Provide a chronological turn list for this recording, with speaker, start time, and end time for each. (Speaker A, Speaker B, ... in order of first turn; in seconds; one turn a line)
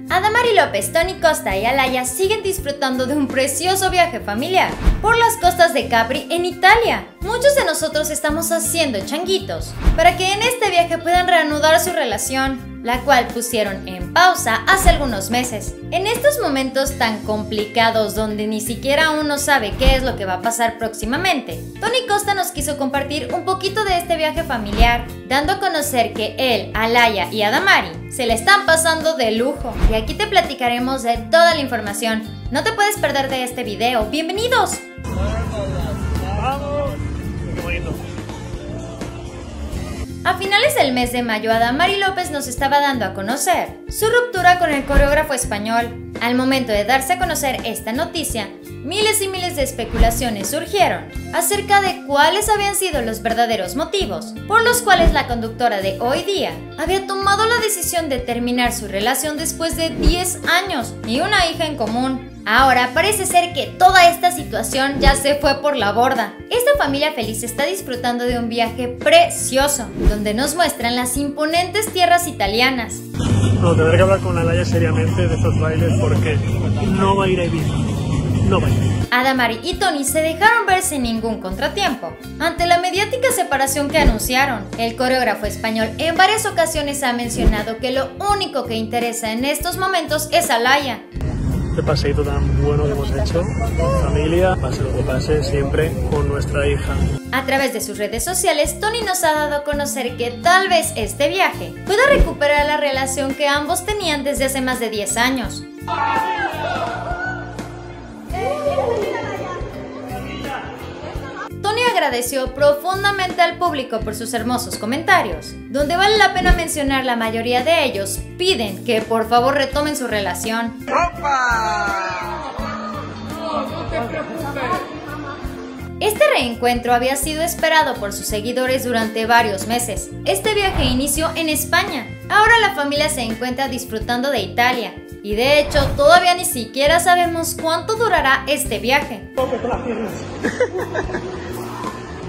Speaker A: 0.1-34.8
Speaker B: 36.3-37.0
Speaker B: 37.5-38.0
Speaker A: 40.2-73.0
Speaker B: 73.6-77.8
Speaker B: 78.4-78.8
Speaker A: 79.1-91.0
Speaker B: 91.7-97.1
Speaker A: 97.3-105.7
Speaker A: 111.6-120.8
Speaker A: 126.0-139.3
Speaker B: 139.6-140.0